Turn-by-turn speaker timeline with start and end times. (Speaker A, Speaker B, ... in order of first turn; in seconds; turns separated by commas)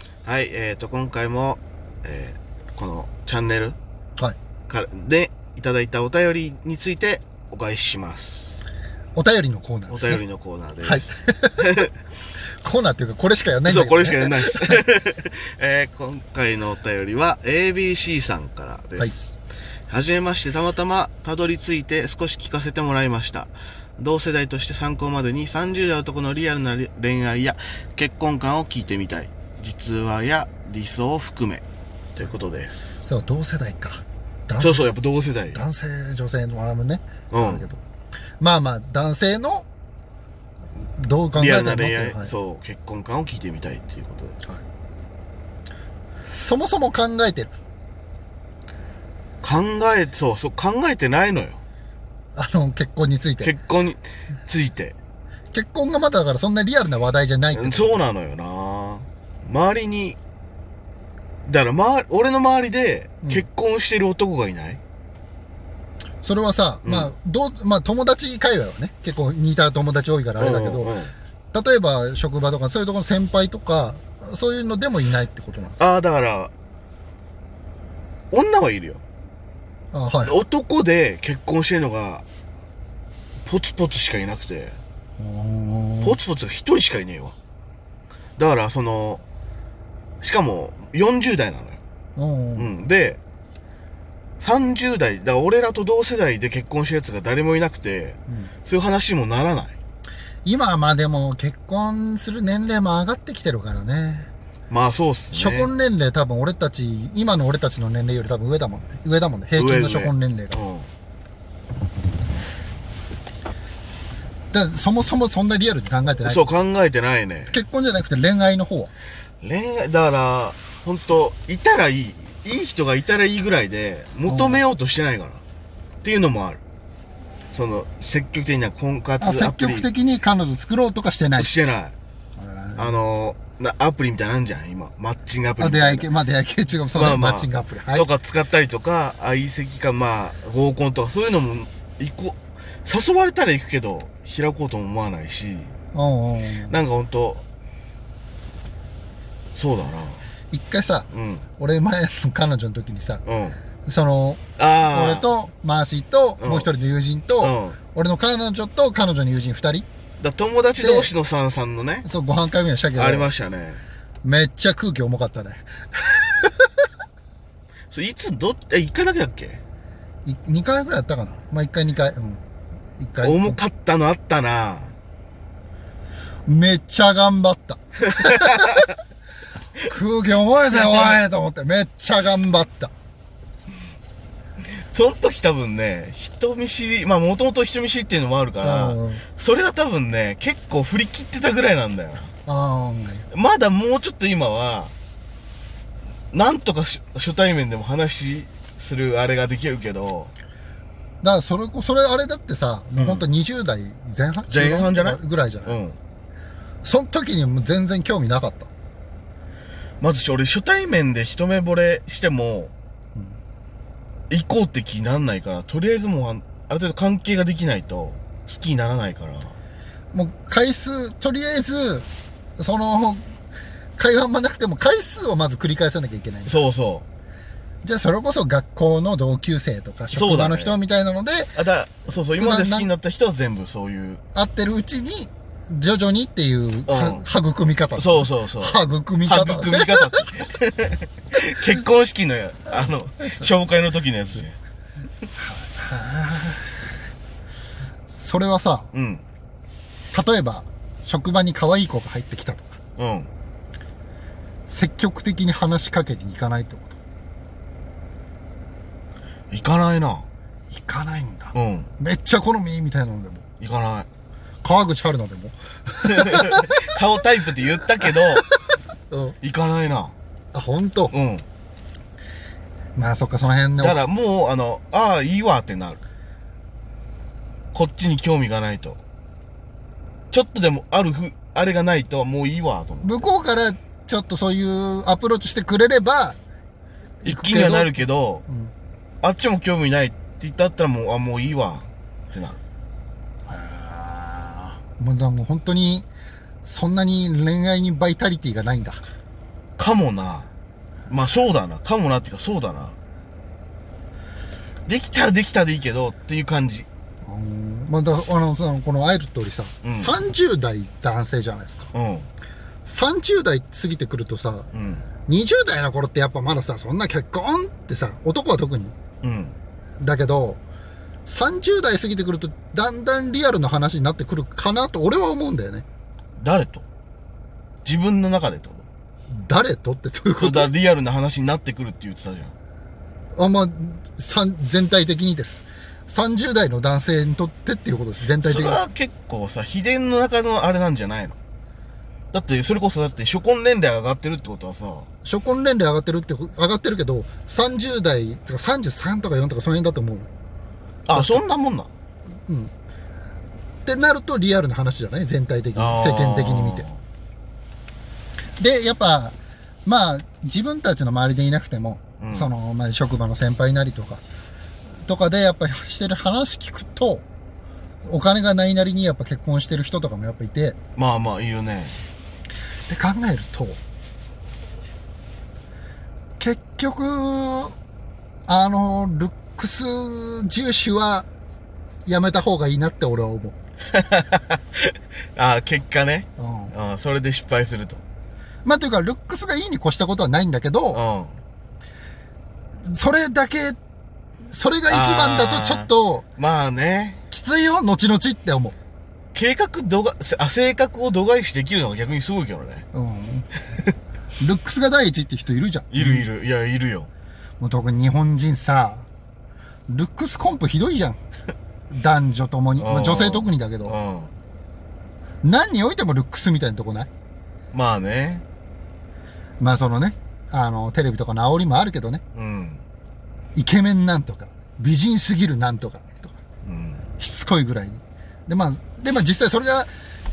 Speaker A: 0.2-3.8, Speaker A: 4.7-8.6, Speaker B: 9.2-10.2, Speaker A: 9.9-11.9, Speaker B: 10.8-11.7, Speaker B: 12.6-14.8, Speaker A: 13.7-19.4, Speaker A: 19.9-31.6, Speaker A: 32.2-33.0, Speaker B: 33.0-34.9, Speaker A: 34.6-35.6, Speaker B: 35.5-37.8, Speaker A: 37.3-37.7, Speaker B: 38.4-39.7, Speaker B: 41.0-42.3, Speaker A: 41.3-44.4, Speaker B: 46.3-47.5, Speaker A: 49.4-51.6, Speaker B: 52.4-53.5, Speaker A: 53.4-55.0, Speaker B: 55.5-58.0, Speaker A: 57.5-60.2, Speaker A: 61.5-64.8, Speaker B: 66.2-70.9, Speaker A: 66.8-67.1, Speaker A: 70.4-71.1, Speaker B: 71.5-75.8, Speaker A: 75.8-76.5, Speaker A: 78.3-79.0, Speaker B: 79.9-80.4, Speaker A: 80.2-82.2, Speaker A: 83.4-84.8, Speaker B: 85.2-86.2, Speaker A: 86.0-87.3, Speaker A: 88.4-89.2, Speaker A: 90.2-91.8, Speaker B: 92.2-92.7, Speaker A: 92.6-93.2, Speaker A: 94.4-99.8, Speaker B: 100.5-104.3, Speaker A: 104.7-105.7, Speaker B: 105.3-110.6, Speaker A: 109.5-110.9, Speaker B: 114.5-116.5, Speaker A: 116.2-117.6, Speaker B: 117.5-118.9, Speaker A: 119.4-125.4, Speaker B: 124.3-124.6, Speaker A: 126.0-126.6, Speaker A: 127.5-129.9, Speaker B: 129.2-131.5, Speaker A: 131.4-131.9, Speaker B: 132.4-133.0, Speaker A: 132.8-136.1, Speaker B: 135.6-138.1, Speaker A: 136.9-145.7, Speaker B: 145.9-146.8, Speaker A: 146.7-147.4, Speaker A: 149.6-150.2, Speaker B: 150.5-151.1, Speaker A: 151.1-151.5, Speaker B: 151.6-153.2, Speaker A: 153.2-153.6, Speaker B: 153.9-159.9, Speaker A: 154.6-155.3, Speaker A: 156.4-156.7, Speaker A: 157.4-157.8, Speaker A: 160.2-162.1, Speaker B: 160.8-161.1, Speaker B: 162.1-163.3, Speaker A: 162.9-163.8, Speaker B: 164.2-166.9, Speaker A: 167.9-169.6, Speaker B: 170.2-172.4, Speaker B: 173.0-173.6, Speaker A: 173.2-174.9, Speaker B: 176.5-178.9, Speaker A: 178.1-178.9, Speaker B: 179.8-182.9, Speaker A: 180.7-181.2, Speaker A: 184.7-192.3, Speaker B: 188.6-189.2, Speaker B: 192.5-193.3, Speaker A: 193.3-194.9, Speaker A: 196.3-200.3, Speaker B: 201.2-205.8, Speaker A: 203.0-203.3, Speaker A: 204.5-206.0, Speaker B: 206.8-208.7, Speaker A: 210.0-212.7, Speaker A: 214.3-219.6, Speaker B: 220.1-223.3, Speaker B: 224.0-226.6, Speaker A: 226.5-227.1, Speaker B: 227.8-231.6, Speaker A: 230.1-230.8, Speaker A: 231.6-234.2, Speaker B: 232.3-232.9, Speaker B: 234.3-240.3, Speaker A: 236.9-237.2, Speaker A: 238.0-244.6, Speaker B: 243.2-243.5, Speaker B: 245.4-246.9, Speaker B: 248.1-248.9, Speaker A: 248.9-249.2, Speaker B: 250.1-252.8, Speaker A: 253.0-253.3, Speaker B: 254.7-256.9, Speaker A: 259.5-260.3, Speaker B: 260.7-263.4, Speaker A: 261.5-261.9, Speaker A: 263.6-264.1, Speaker B: 264.6-266.9, Speaker A: 266.0-268.5, Speaker B: 268.0-268.6, Speaker B: 269.1-269.4, Speaker A: 269.4-270.1, Speaker B: 270.5-271.1, Speaker A: 271.1-271.4, Speaker B: 273.0-274.0, Speaker A: 273.8-276.0, Speaker A: 277.7-279.0, Speaker A: 280.3-283.3, Speaker B: 283.0-286.4, Speaker B: 287.2-288.7, Speaker A: 287.2-288.4, Speaker A: 289.2-292.6, Speaker B: 293.5-296.1, Speaker B: 296.6-299.0, Speaker A: 299.8-300.5, Speaker A: 301.1-303.0, Speaker A: 304.9-306.9, Speaker B: 307.2-311.9, Speaker A: 309.8-310.1, Speaker A: 311.9-312.3, Speaker B: 312.9-314.7, Speaker A: 314.7-315.1, Speaker B: 315.3-318.9, Speaker A: 319.2-319.6, Speaker B: 320.0-320.6, Speaker B: 321.3-325.9, Speaker A: 326.4-326.9, Speaker A: 327.9-328.9, Speaker B: 329.3-330.7, Speaker A: 330.4-332.5, Speaker B: 333.4-338.9, Speaker A: 338.4-341.4, Speaker A: 342.3-345.1, Speaker B: 345.2-350.3, Speaker A: 351.1-351.9, Speaker B: 351.1-351.4, Speaker B: 352.5-352.7, Speaker B: 353.9-356.9, Speaker A: 355.8-357.0, Speaker B: 358.6-364.2, Speaker A: 362.2-362.5, Speaker B: 365.1-367.2, Speaker B: 368.0-370.8, Speaker A: 371.0-372.0, Speaker B: 372.9-373.8, Speaker B: 376.4-377.8, Speaker B: 378.5-381.3, Speaker B: 382.1-383.6, Speaker A: 383.9-388.0, Speaker B: 386.4-386.7, Speaker B: 388.6-391.0, Speaker A: 390.9-391.4, Speaker B: 392.9-393.8, Speaker B: 394.5-396.2, Speaker A: 394.9-397.2, Speaker B: 397.3-398.8, Speaker A: 399.3-402.9, Speaker B: 402.9-403.5, Speaker B: 404.4-406.3, Speaker A: 405.9-407.1, Speaker B: 407.6-409.1, Speaker B: 409.9-411.2, Speaker B: 411.9-414.0, Speaker A: 412.8-414.3, Speaker B: 415.4-417.1, Speaker A: 417.7-418.4, Speaker B: 419.6-422.2, Speaker A: 422.4-422.8, Speaker B: 423.6-426.4, Speaker A: 426.6-427.1, Speaker B: 427.2-429.9